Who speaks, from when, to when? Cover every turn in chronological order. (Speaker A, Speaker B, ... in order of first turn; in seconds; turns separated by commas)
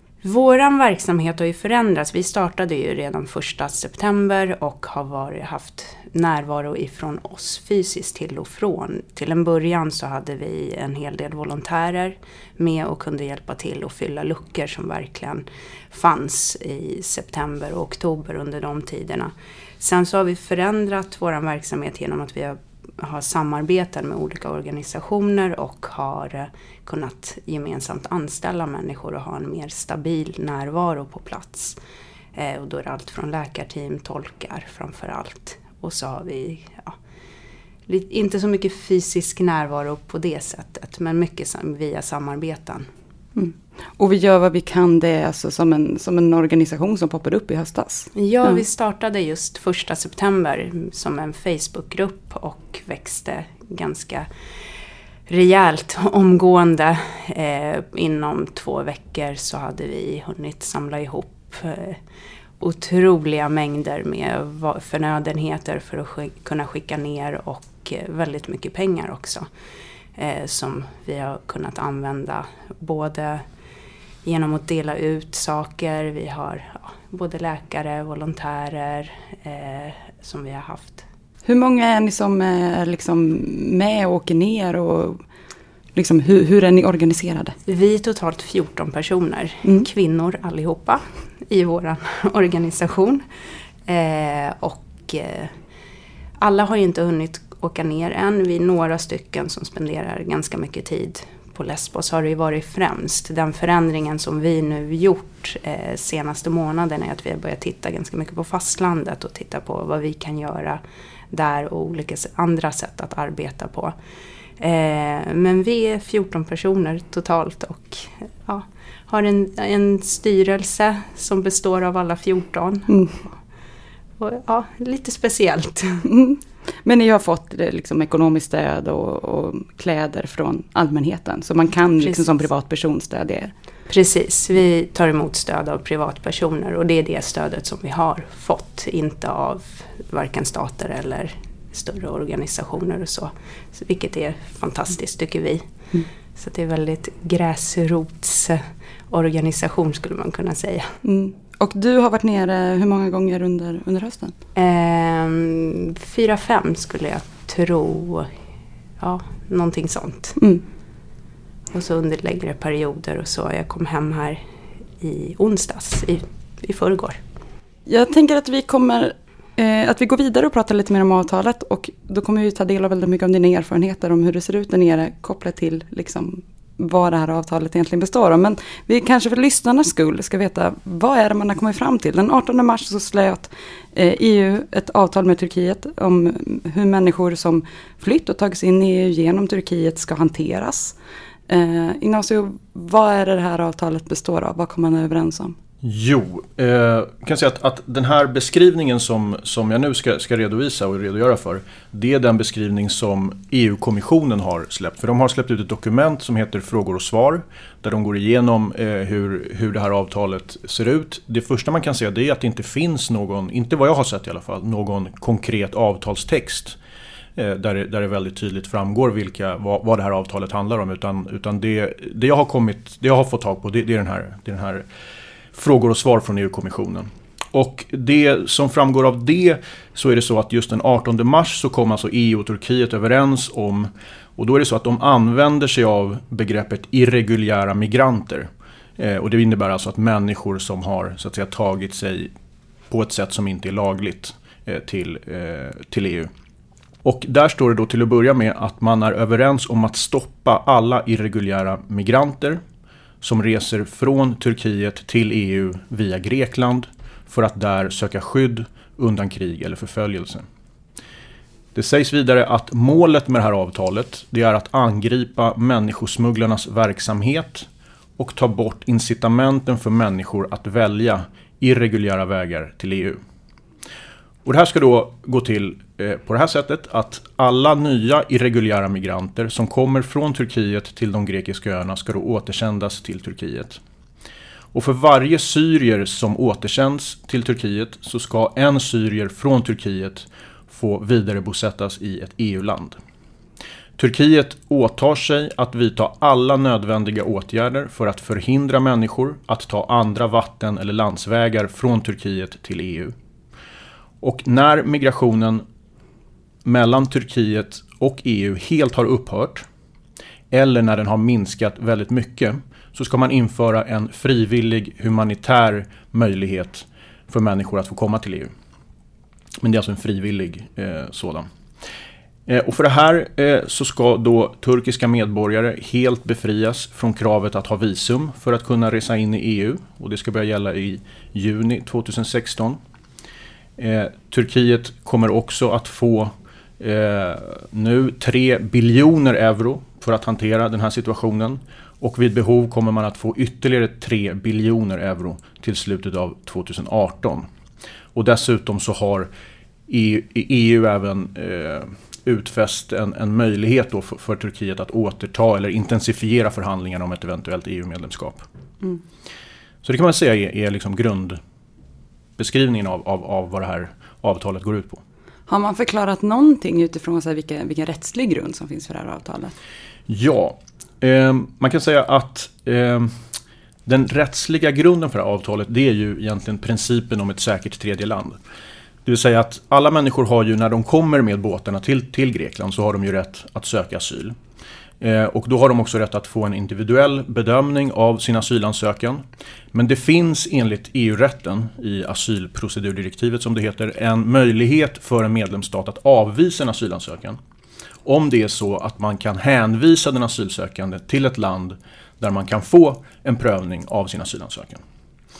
Speaker A: 0.2-31.8, Speaker A: 32.4-37.0, Speaker A: 37.9-42.9, Speaker B: 43.4-48.6, Speaker A: 48.1-54.3, Speaker A: 55.3-62.0, Speaker A: 62.6-69.5, Speaker A: 70.2-73.4, Speaker A: 74.2-81.0, Speaker B: 81.5-85.2, Speaker B: 86.0-87.6, Speaker A: 87.7-93.2, Speaker A: 93.9-95.5, Speaker A: 96.4-110.8, Speaker A: 111.3-114.0, Speaker A: 114.6-122.9, Speaker B: 122.9-123.2, Speaker A: 124.2-126.1, Speaker B: 126.1-133.5, Speaker A: 132.0-132.3, Speaker A: 133.9-145.6, Speaker A: 146.4-150.9, Speaker B: 151.0-154.3, Speaker A: 154.6-158.3, Speaker A: 159.0-160.4, Speaker A: 161.7-164.4, Speaker A: 165.0-167.2, Speaker B: 167.9-191.0, Speaker B: 191.5-195.6, Speaker C: 195.8-216.8, Speaker C: 217.4-224.9, Speaker C: 225.5-242.3, Speaker C: 242.9-246.3, Speaker C: 247.0-252.6, Speaker C: 253.2-260.4, Speaker C: 261.8-273.2, Speaker C: 274.4-283.8, Speaker C: 284.7-293.0, Speaker C: 294.0-303.1, Speaker C: 304.2-305.6, Speaker C: 306.6-309.7, Speaker C: 310.5-318.5, Speaker C: 319.6-321.5, Speaker C: 322.5-332.8, Speaker C: 333.8-347.5, Speaker C: 348.1-349.3, Speaker C: 349.9-358.4, Speaker C: 359.8-361.4, Speaker C: 362.4-365.0, Speaker B: 365.5-369.6, Speaker C: 370.1-373.1, Speaker C: 373.9-378.4, Speaker C: 379.1-384.4, Speaker C: 385.0-397.4, Speaker C: 398.1-404.8